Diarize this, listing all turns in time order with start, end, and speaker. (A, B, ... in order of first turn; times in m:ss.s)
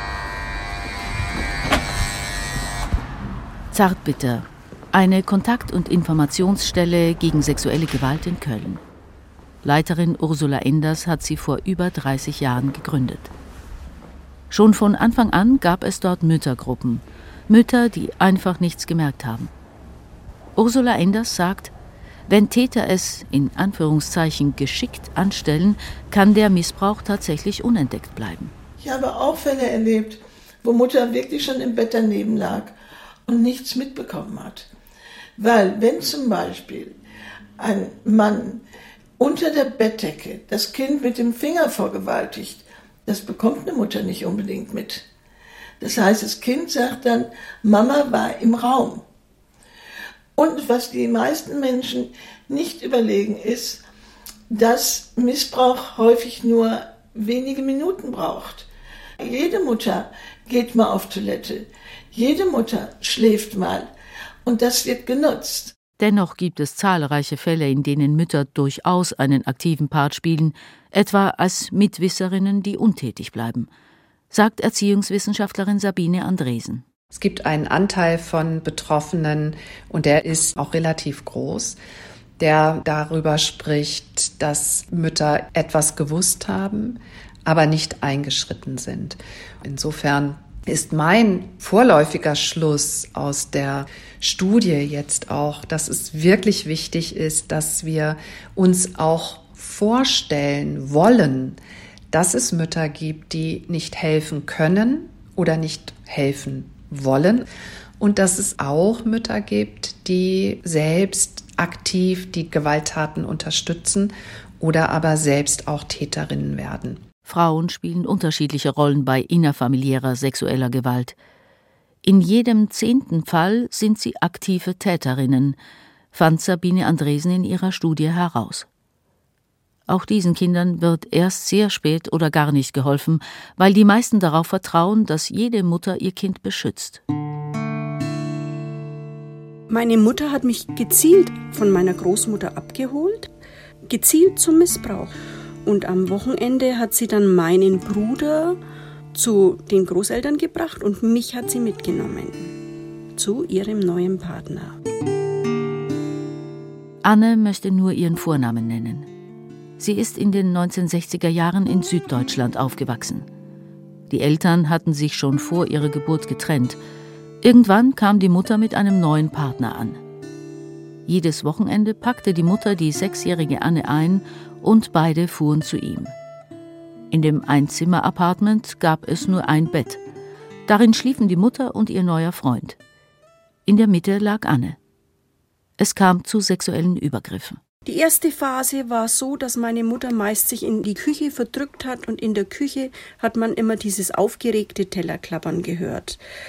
0:03.7-0:08.8 A
0:09.6-0:13.3 A
0:14.5-0:19.5 A
0:20.6-0:21.7 A
0:22.3-0:28.5 A
0:28.8-0:32.7 B
0:33.3-0:34.7 B
0:35.4-0:36.9 B
0:37.6-0:38.6 B
0:39.2-0:45.0 B
0:45.8-0:49.0 B
0:50.4-0:53.8 B
0:54.5-0:58.7 B
0:59.2-1:03.9 B
1:04.4-1:05.7 B
1:06.0-1:13.7 A
1:14.3-1:16.8 A
1:17.1-1:21.8 C
1:22.4-1:41.6 C
1:42.1-1:47.4 C
1:48.0-1:57.0 C
1:57.2-2:01.1 A
2:02.0-2:05.6 A
2:06.1-2:08.7 A
2:09.9-2:17.0 A
2:19.7-2:23.3 D
2:23.9-2:25.1 D
2:25.6-2:28.6 D
2:29.1-2:32.5 D
2:33.2-2:34.8 D
2:37.0-2:39.1 A
2:39.8-2:43.3 A
2:44.1-2:46.8 A
2:47.4-2:50.0 A
2:51.1-2:56.1 A
2:57.1-3:00.0 A
3:00.7-3:02.8 A
3:03.6-3:04.8 A
3:05.8-3:07.6 A
3:07.8-3:16.2 D